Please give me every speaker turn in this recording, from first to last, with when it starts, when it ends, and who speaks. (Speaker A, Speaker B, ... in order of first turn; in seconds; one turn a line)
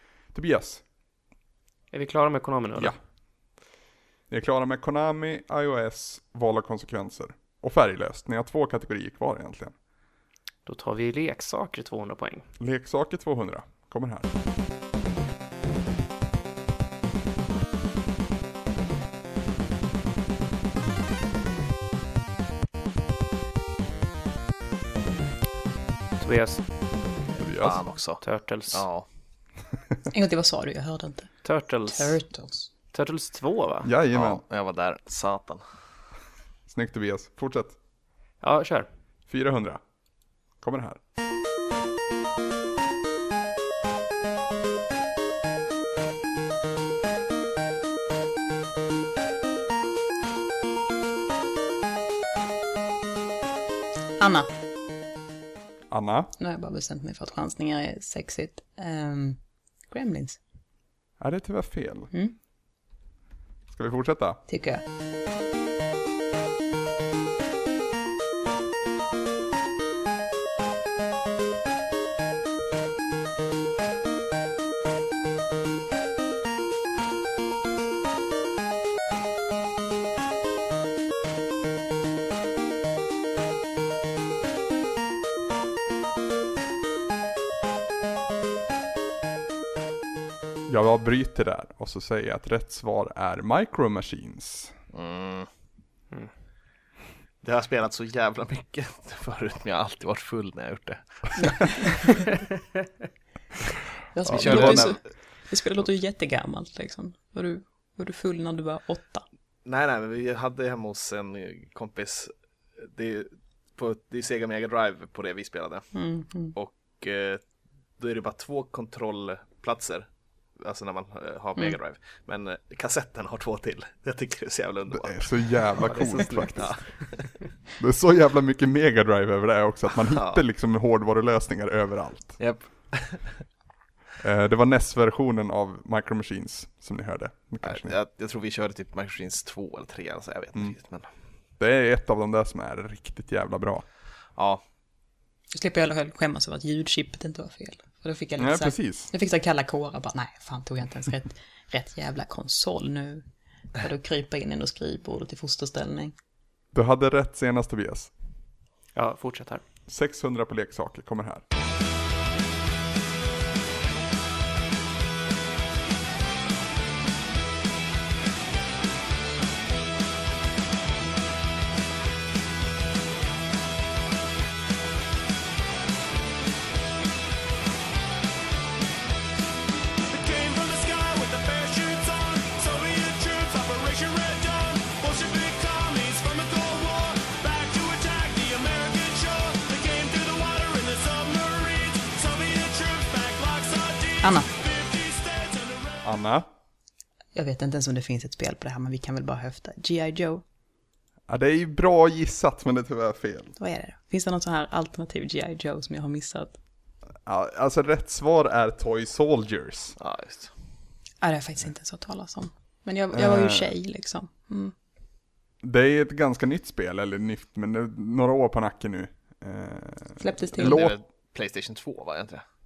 Speaker A: 0.3-0.8
Speaker B: 1.9-2.9
Speaker A: 4.3-9.7
Speaker B: 10.7-12.5
Speaker A: 12.6-14.3
Speaker B: 26.2-26.6
Speaker A: 27.4-27.8
Speaker C: 27.6-29.1
Speaker B: 28.2-28.8
Speaker D: 30.1-31.3
Speaker B: 31.4-32.2
Speaker D: 31.9-32.7
Speaker B: 32.9-33.9
Speaker A: 33.8-34.4
Speaker C: 34.1-35.6
Speaker A: 36.7-37.8
Speaker B: 38.4-38.9
Speaker A: 39.3-39.8
Speaker A: 40.6-41.0
Speaker D: 54.2-54.5
Speaker A: 55.9-56.3
Speaker D: 56.4-59.4
Speaker D: 59.9-60.4
Speaker A: 61.2-62.1
Speaker A: 63.7-64.4
Speaker D: 64.5-64.8
Speaker A: 90.7-94.7
Speaker C: 94.9-95.5
Speaker C: 97.4-102.2
Speaker D: 104.1-109.2
Speaker C: 104.3-105.0
Speaker A: 104.3-104.9
Speaker C: 109.6-115.9
Speaker D: 115.9-116.5
Speaker C: 116.5-117.4
Speaker C: 118.0-120.1
Speaker C: 120.6-125.3
Speaker A: 124.9-126.8
Speaker B: 125.7-126.9
Speaker C: 126.5-127.1
Speaker A: 127.8-132.4
Speaker C: 130.0-130.4
Speaker C: 132.4-133.4
Speaker A: 134.2-137.9
Speaker C: 137.6-141.1
Speaker A: 141.6-143.8
Speaker C: 144.3-144.6
Speaker D: 145.5-153.2
Speaker A: 148.4-149.1
Speaker D: 153.8-156.1
Speaker A: 156.7-158.1
Speaker B: 158.9-159.6
Speaker A: 159.9-161.4
Speaker E: 180.1-196.1
Speaker D: 194.2-194.5
Speaker A: 196.0-196.4
Speaker D: 197.3-200.4
Speaker A: 201.3-203.5
Speaker D: 203.6-206.6
Speaker A: 207.2-209.9
Speaker C: 210.0-210.5
Speaker D: 211.2-214.7
Speaker A: 213.1-213.7
Speaker A: 215.6-221.0
Speaker D: 220.2-220.9
Speaker C: 220.6-222.4